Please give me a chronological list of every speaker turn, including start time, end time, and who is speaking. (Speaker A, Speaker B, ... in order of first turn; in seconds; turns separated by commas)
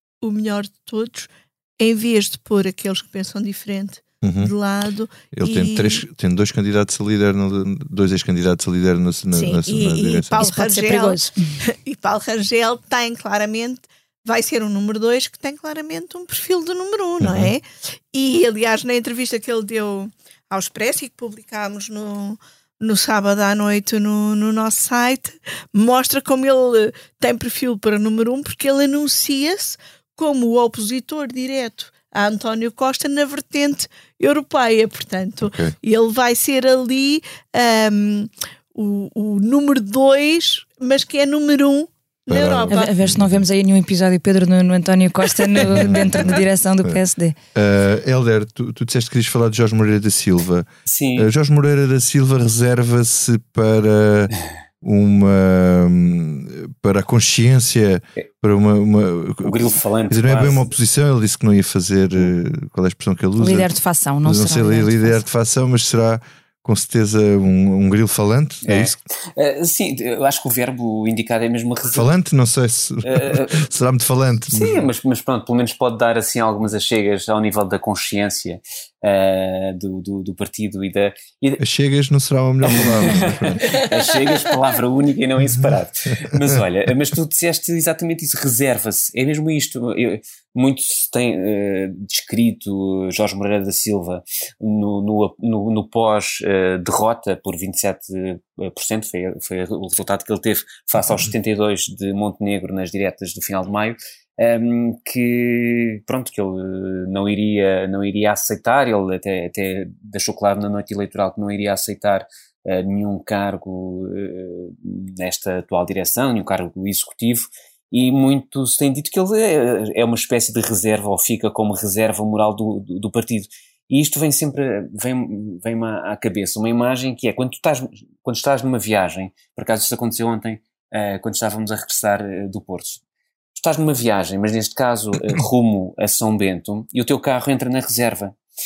Speaker A: 0.2-6.0, Speaker B: 4.2-4.5, Speaker B: 5.3-10.5, Speaker A: 9.3-42.9, Speaker C: 10.4-11.6, Speaker B: 17.2-17.5, Speaker B: 35.4-35.8, Speaker B: 42.3-43.4, Speaker C: 42.7-47.4, Speaker B: 45.6-47.0, Speaker B: 47.5-63.7, Speaker D: 50.9-51.3, Speaker D: 59.4-60.7, Speaker C: 63.4-65.2, Speaker B: 64.2-69.0, Speaker D: 68.6-72.1, Speaker B: 71.9-74.9, Speaker D: 73.0-73.6, Speaker D: 74.5-81.6, Speaker B: 81.6-83.8, Speaker D: 82.6-133.0, Speaker D: 133.6-138.3